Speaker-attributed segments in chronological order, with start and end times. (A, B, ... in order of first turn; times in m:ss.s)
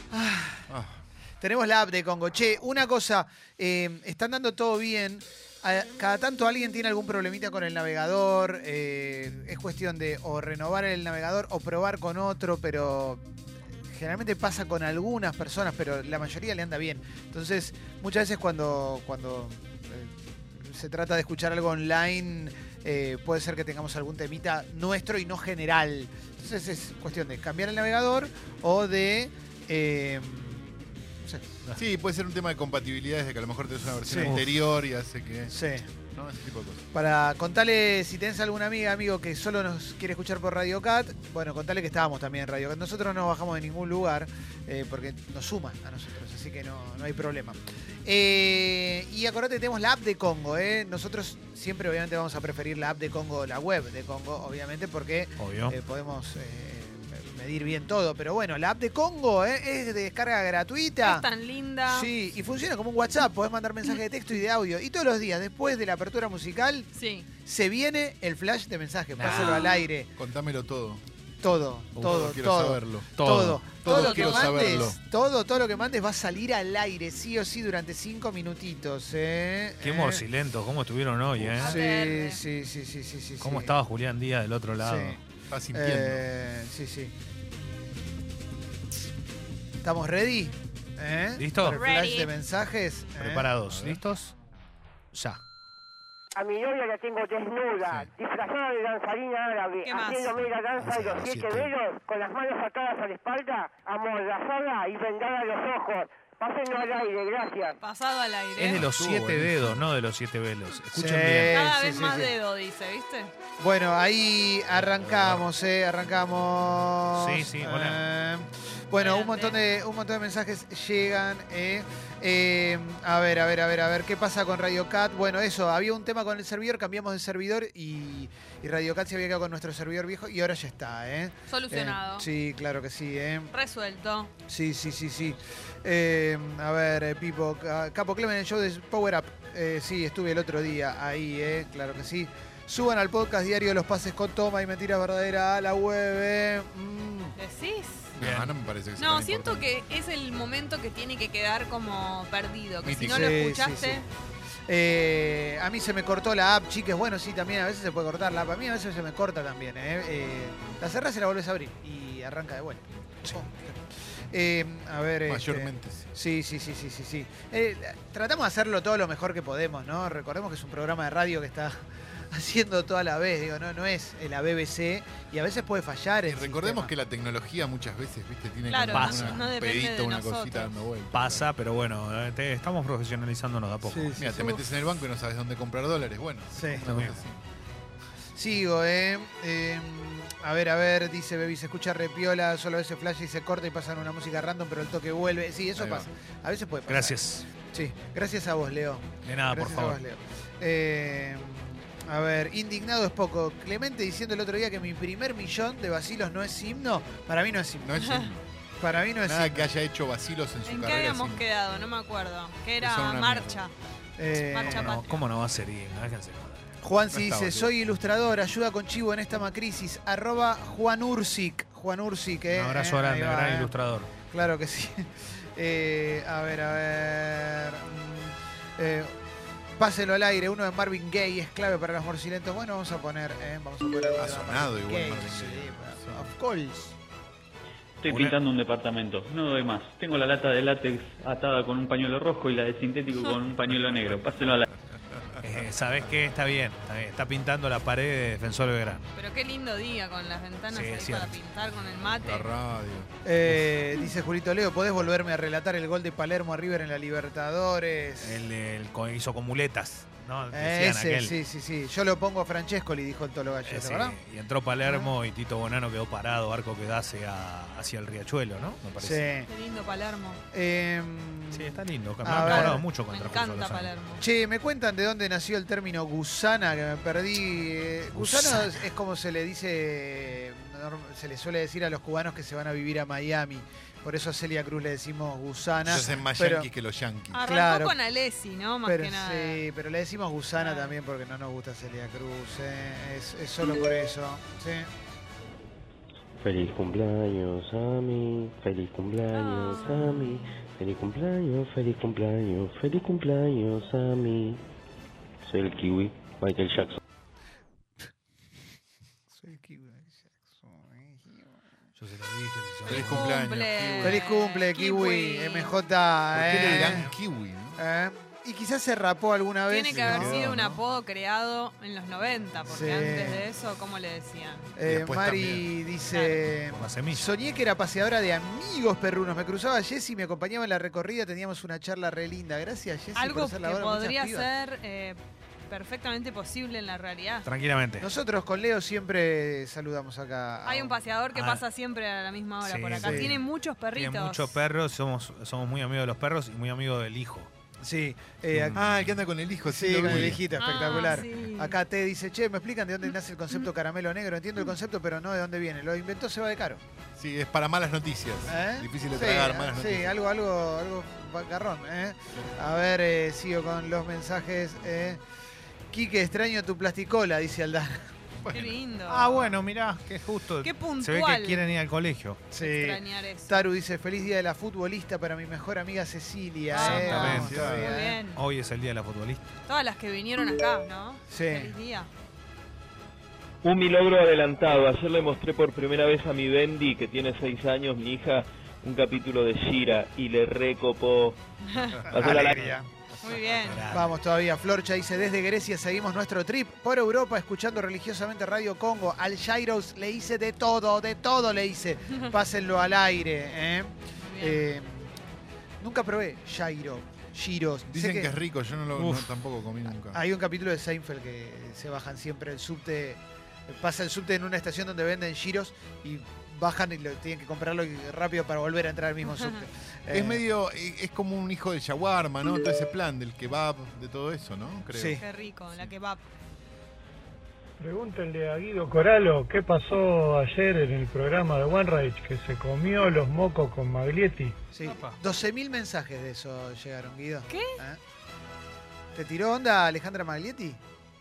0:00.1-0:00.7 A
0:00.7-0:01.0 B
0:01.4-0:13.2 A
0:13.9-0:31.5 A
0:31.8-0:35.6 B
0:34.0-0:34.4 A
0:35.5-0:35.9 A
0:36.1-0:36.8 B
0:36.9-1:01.2 A
0:55.4-0:55.7 C
1:01.0-1:02.1 D
1:01.9-1:06.9 A
1:06.9-1:07.3 D
1:07.4-1:10.1 A
1:09.2-1:09.6 C
1:09.2-1:09.6 B
1:09.3-1:09.8 D
1:10.2-1:11.0 B
1:11.4-1:20.2 A
1:12.0-1:15.0 B
1:13.2-1:13.5 C
1:13.8-1:14.8 D
1:19.8-1:21.7 C
1:21.4-1:21.7 B
1:21.6-1:22.4 D
1:21.6-1:23.8 A
1:23.4-1:25.2 C
1:24.8-1:25.2 A
1:25.5-1:26.3 B
1:25.7-1:27.1 A
1:29.8-1:33.5 A
1:31.4-1:31.8 C
1:31.7-1:32.3 D
1:33.2-1:34.3 C
1:33.7-1:34.0 B
1:35.1-1:35.4 C
1:36.4-1:47.8 E
1:37.8-1:38.1 B
1:39.8-1:40.4 D
1:40.7-1:41.7 B
1:47.8-1:48.8 D
1:48.6-1:51.6 C
1:48.7-1:49.8 B
1:50.9-1:52.3 A
1:51.5-1:53.3 D
1:53.6-2:13.5 A
1:55.0-1:55.4 B
1:57.2-1:58.0 C
1:59.0-1:59.6 D
2:11.5-2:12.3 D
2:13.5-2:14.3 D
2:14.5-2:27.4 A
2:27.4-2:28.1 D
2:28.2-2:29.7 B
2:28.2-2:28.5 C
2:29.0-2:34.1 D
2:32.8-2:33.3 B
2:33.0-2:34.0 A
2:34.7-2:56.9 A
2:45.3-2:46.0 B
2:56.3-3:01.5 B
2:58.7-3:00.8 D
2:58.9-2:59.4 C
3:01.1-3:04.2 C
3:03.8-3:04.6 A
3:04.2-3:07.4 B
3:06.6-3:06.9 A
3:06.8-3:07.2 C
3:08.4-3:28.0 A
3:15.8-3:16.1 B
3:16.9-3:17.5 C
3:19.2-3:20.0 C
3:27.8-3:28.4 B
3:28.0-3:28.3 D
3:28.8-3:29.7 A
3:29.2-3:31.4 B
3:30.6-3:33.7 D
3:32.8-3:33.6 B
3:34.2-3:35.0 A
3:34.4-3:35.2 D
3:34.6-3:36.7 C
3:36.8-3:43.7 A
3:37.1-3:37.7 B
3:42.5-3:44.1 C
3:44.2-3:49.1 A
3:49.8-3:57.0 A
3:54.2-3:56.3 B
3:58.0-4:04.7 F
3:58.1-3:58.3 C
4:05.0-4:05.4 B
4:05.4-4:09.0 C
4:09.2-4:12.5 D
4:10.7-4:11.4 C
4:12.2-4:13.1 B
4:13.2-4:18.4 A
4:18.2-4:21.4 C
4:20.5-4:24.2 A
4:23.7-4:29.3 C
4:29.0-4:29.5 A
4:29.5-4:30.4 D
4:30.5-4:32.8 A
4:31.5-4:33.9 C
4:32.4-4:34.2 D
4:34.2-4:46.7 A
4:38.3-4:38.7 C
4:45.8-4:47.4 B
4:47.3-4:49.6 D
4:47.4-4:47.9 A
4:48.8-4:54.9 A
4:50.6-4:50.9 D
4:56.4-5:04.6 G
4:59.3-5:00.4 D
5:05.4-5:07.0 G
5:09.3-5:11.6 A
5:12.0-5:13.3 C
5:12.8-5:14.2 B
5:12.9-5:15.7 D
5:14.0-5:17.1 A
5:16.3-5:17.8 B
5:17.8-5:20.5 A
5:19.7-5:24.7 D
5:19.9-5:20.8 B
5:22.7-5:23.4 A
5:24.8-5:34.5 A
5:24.8-5:25.7 B
5:26.1-5:26.4 D
5:26.7-5:27.3 C
5:33.2-5:35.2 D
5:35.7-5:37.5 D
5:37.4-5:38.1 C
5:38.0-5:41.0 A
5:40.6-5:44.6 D
5:41.3-5:41.6 C
5:42.6-5:43.4 C
5:43.0-5:43.3 A
5:43.9-5:47.5 C
5:47.8-5:48.9 A
5:48.5-5:49.0 C
5:48.7-5:50.5 B
5:49.7-5:56.8 A
5:50.6-5:51.8 D
5:57.2-6:00.2 B
5:58.5-6:05.2 A
6:05.9-6:08.1 A
6:08.4-6:08.8 B
6:08.5-6:09.5 D
6:09.1-6:12.4 C
6:10.6-6:11.6 D
6:12.5-6:18.2 A
6:12.6-6:13.6 D
6:16.7-6:18.4 D
6:16.7-6:19.6 C
6:17.2-6:17.8 B
6:19.7-6:22.1 D
6:21.3-6:21.7 A
6:23.6-6:31.4 H
6:31.7-6:32.0 D
6:32.1-6:32.7 H
6:32.2-6:32.8 C
6:32.2-6:32.8 A
6:33.2-6:33.8 D
6:33.5-6:34.2 C
6:33.9-6:45.1 A
6:44.2-6:44.6 D
6:45.8-6:48.3 A
6:47.9-6:50.2 B
6:49.0-6:49.3 C
6:50.1-7:00.4 A
7:00.1-7:05.2 B
7:04.9-7:05.2 A
7:05.2-7:06.2 D
7:07.8-7:14.6 I
7:14.7-7:18.0 A
7:14.8-7:15.2 C
7:17.5-7:17.8 D
7:19.2-7:20.8 A